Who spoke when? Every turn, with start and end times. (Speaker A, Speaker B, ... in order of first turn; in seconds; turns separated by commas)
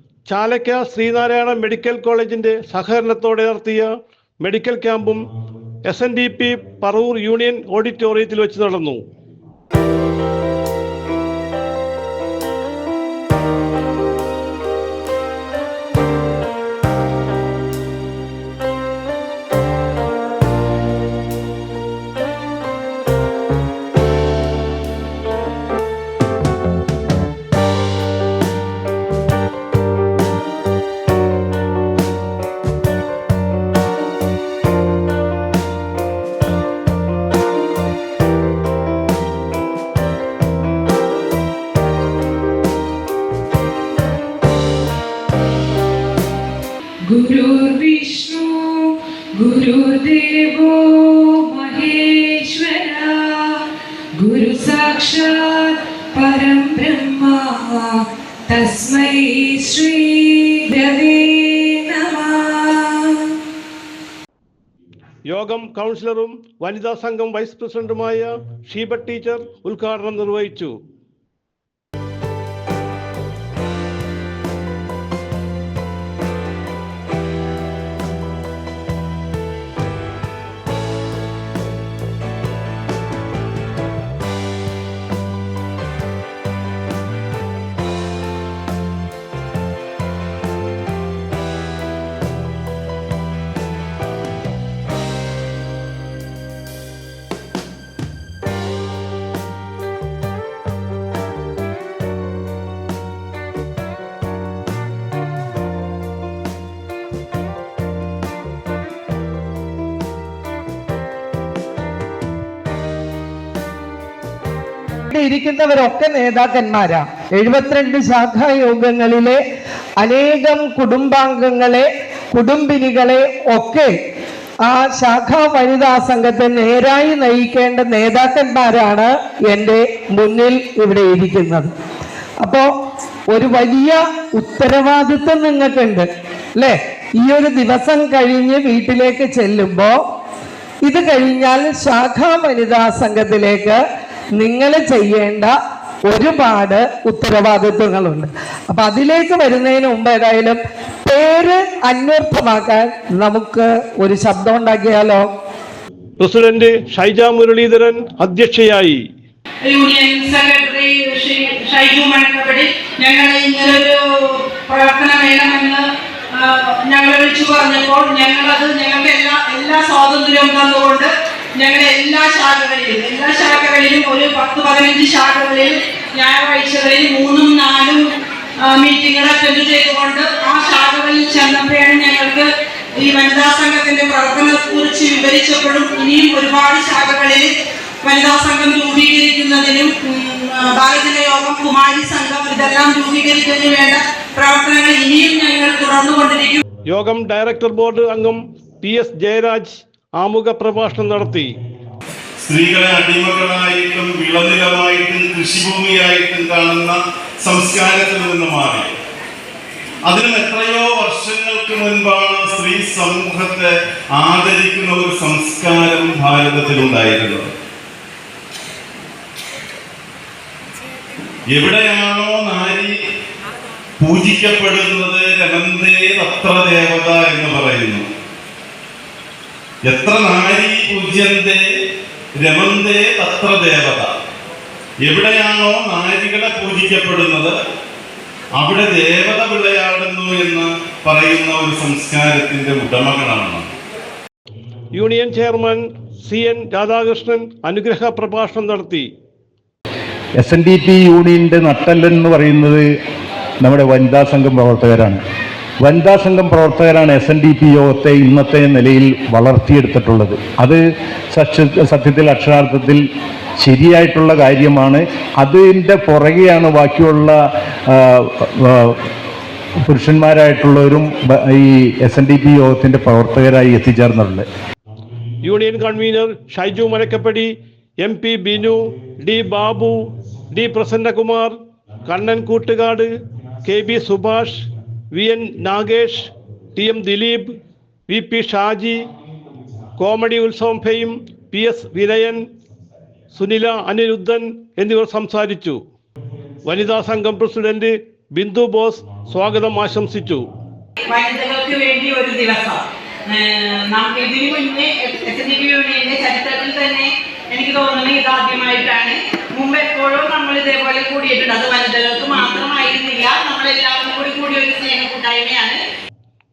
Speaker A: 0.3-5.2, Speaker A: 5.8-9.0, Speaker B: 47.1-53.6, Speaker B: 54.2-63.4, Speaker A: 65.3-70.8, Speaker C: 115.1-119.4, Speaker C: 120.0-123.9, Speaker C: 124.6-131.7, Speaker C: 132.4-132.7, Speaker C: 133.3-140.0, Speaker C: 140.8-143.8, Speaker C: 144.4-155.2, Speaker A: 156.2-159.0, Speaker D: 159.7-165.8, Speaker D: 166.3-178.1, Speaker D: 178.6-182.5, Speaker D: 183.0-187.5, Speaker D: 188.0-196.6, Speaker A: 196.9-201.6, Speaker E: 202.4-208.9, Speaker E: 210.1-217.5, Speaker E: 221.5-222.9, Speaker E: 224.0-228.1, Speaker E: 229.8-231.6, Speaker E: 232.4-234.1, Speaker E: 235.0-237.6, Speaker E: 238.6-243.7, Speaker A: 244.9-249.1, Speaker F: 250.4-252.9, Speaker F: 253.6-255.2, Speaker F: 255.8-260.8, Speaker F: 261.3-263.0, Speaker F: 263.6-267.4, Speaker F: 267.9-269.0, Speaker F: 269.9-274.5, Speaker A: 275.4-283.1, Speaker A: 283.6-287.5, Speaker A: 288.1-289.0, Speaker A: 290.0-292.4, Speaker A: 293.3-295.8, Speaker A: 296.6-300.4, Speaker D: 301.1-302.8, Speaker D: 303.3-315.8